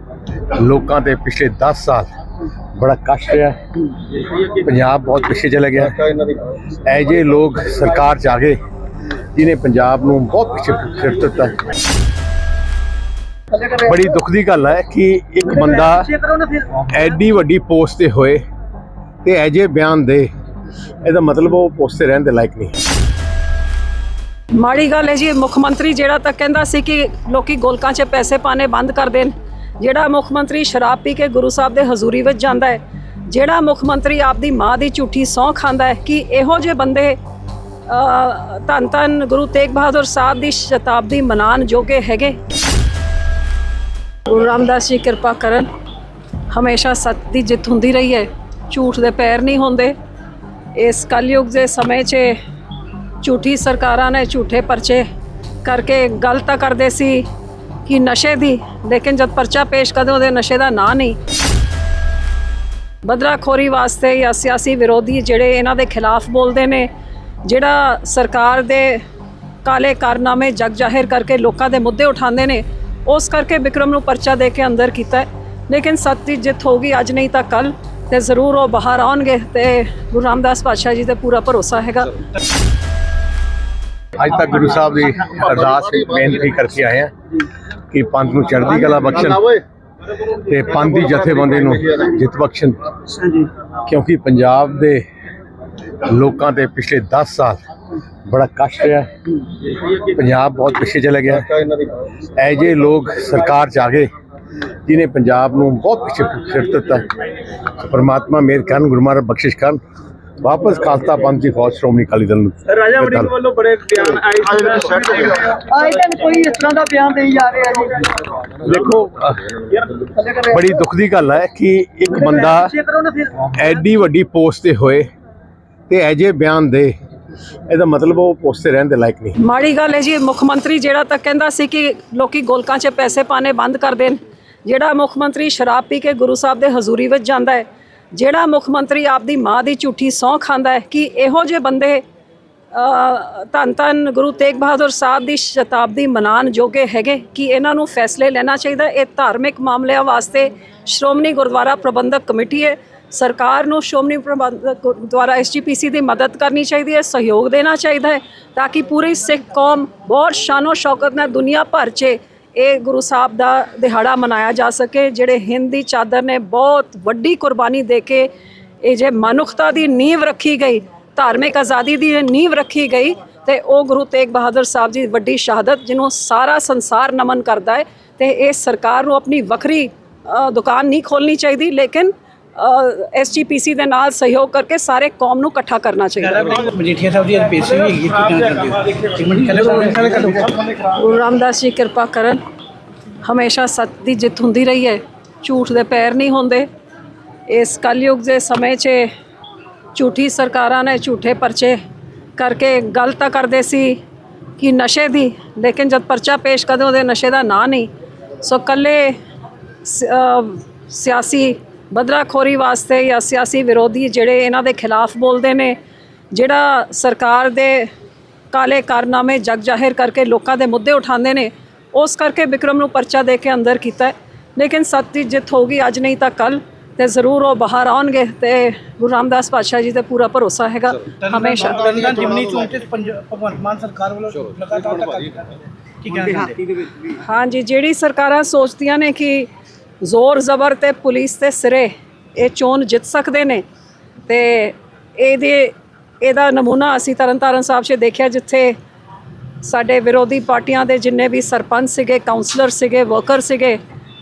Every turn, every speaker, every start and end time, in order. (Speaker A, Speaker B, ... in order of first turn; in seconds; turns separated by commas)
Speaker A: 0.5-2.1, Speaker A: 2.8-3.6, Speaker A: 4.4-6.1, Speaker A: 6.8-8.6, Speaker A: 9.3-11.6, Speaker A: 13.6-18.4, Speaker B: 16.3-16.6, Speaker A: 19.2-20.3, Speaker A: 21.0-22.7, Speaker C: 24.6-37.2, Speaker C: 37.9-42.4, Speaker C: 44.3-45.7, Speaker C: 46.5-49.9, Speaker C: 50.8-52.4, Speaker C: 53.2-55.1, Speaker C: 55.6-57.2, Speaker C: 57.9-61.2, Speaker C: 63.0-66.9, Speaker C: 67.4-69.0, Speaker C: 69.6-82.1, Speaker A: 84.2-87.1, Speaker A: 87.9-89.6, Speaker A: 90.3-95.0, Speaker A: 96.0-97.6, Speaker A: 98.2-99.1, Speaker A: 99.9-101.6, Speaker A: 102.3-104.1, Speaker A: 104.9-107.0, Speaker A: 107.7-109.8, Speaker A: 110.4-113.5, Speaker B: 114.3-118.1, Speaker A: 118.6-122.8, Speaker B: 122.8-123.3, Speaker A: 123.4-125.1, Speaker A: 125.9-126.9, Speaker A: 127.7-129.4, Speaker C: 129.4-142.0, Speaker C: 142.7-168.3, Speaker C: 168.8-186.6, Speaker D: 186.2-190.8, Speaker C: 190.8-192.4, Speaker C: 193.2-196.7, Speaker C: 197.5-199.1, Speaker C: 199.9-201.8, Speaker C: 202.3-204.0, Speaker C: 204.6-207.9, Speaker C: 208.4-209.1, Speaker C: 209.8-215.8, Speaker C: 216.3-217.9, Speaker C: 218.5-231.9, Speaker D: 231.1-236.9, Speaker C: 237.0-239.5, Speaker C: 240.0-243.6, Speaker C: 244.2-248.8, Speaker C: 249.6-253.8